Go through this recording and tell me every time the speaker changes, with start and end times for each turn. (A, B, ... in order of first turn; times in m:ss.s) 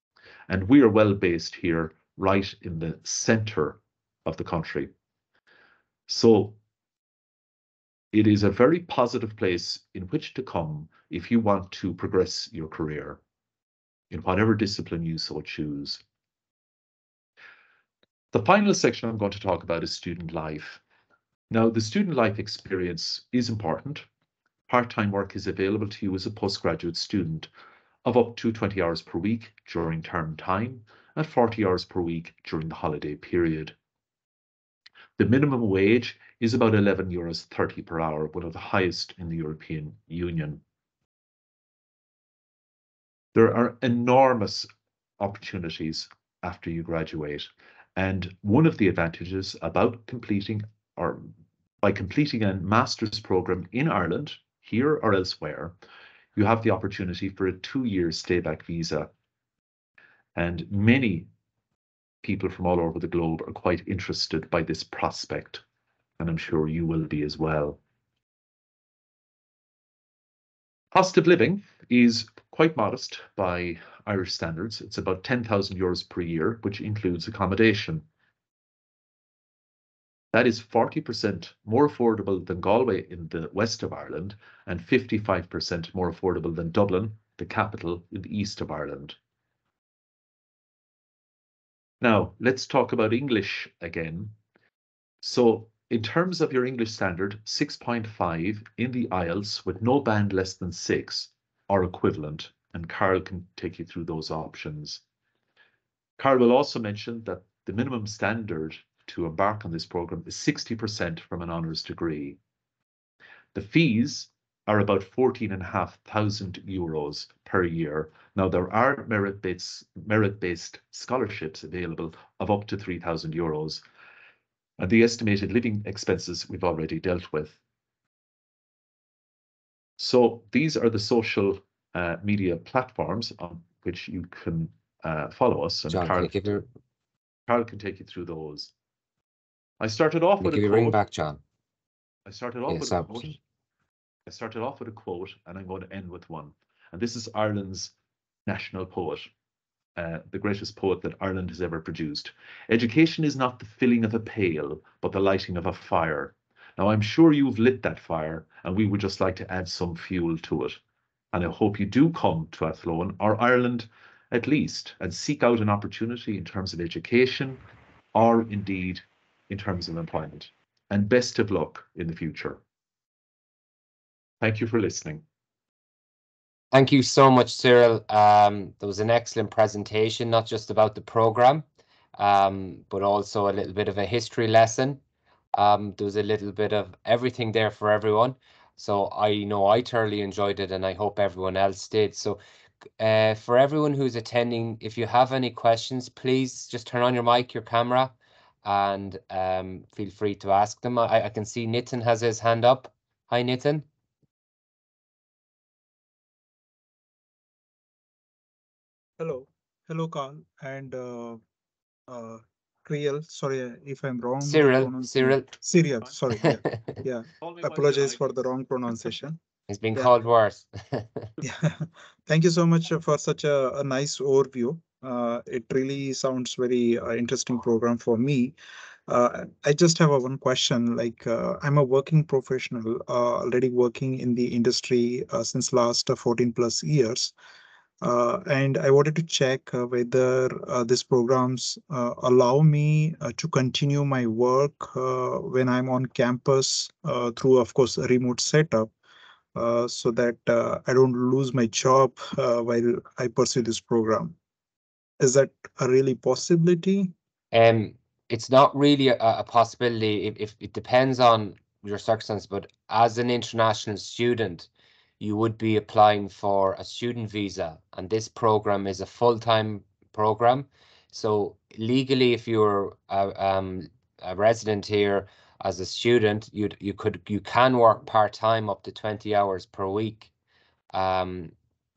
0:00.5-0:04.9 A
0:06.1-0:06.6 A
0:08.1-0:13.2 A
0:14.1-0:16.0 A
0:18.3-0:20.8 A
0:21.5-0:24.1 A
0:24.7-0:27.5 A
0:28.0-0:33.8 A
0:35.2-0:40.6 A
0:43.3-0:44.7 A
0:45.2-0:55.8 A
0:56.4-0:59.1 A
1:00.4-1:01.3 A
1:02.2-1:05.6 A
1:06.2-1:07.8 A
1:10.9-1:18.0 A
1:20.3-1:29.2 A
1:32.0-1:34.4 A
1:35.2-1:45.0 A
1:46.2-1:52.4 A
1:53.5-2:03.8 A
2:04.8-2:07.6 A
2:10.0-2:16.4 A
2:15.9-2:16.7 B
2:17.5-2:18.7 A
2:19.8-2:21.0 A
2:20.4-2:21.4 B
2:22.3-2:23.4 A
2:22.7-2:23.4 B
2:24.3-2:27.9 A
2:28.5-2:29.3 A
2:30.0-2:40.8 A
2:41.3-2:47.6 A
2:48.2-2:52.6 A
2:54.4-2:55.2 A
2:56.7-3:01.6 B
3:02.2-3:05.0 B
3:05.6-3:12.4 B
3:13.0-3:23.9 B
3:29.2-3:31.4 C
3:32.1-3:39.4 C
3:34.4-3:35.5 B
3:36.4-3:37.0 B
3:37.4-3:38.5 A
3:39.7-3:41.3 B
3:41.4-3:48.6 C
3:49.1-3:57.3 C
3:58.0-4:08.9 C
4:09.6-4:14.4 C
4:15.2-4:17.1 C
4:17.5-4:24.7 B
4:25.2-4:40.3 B
4:40.9-4:41.5 B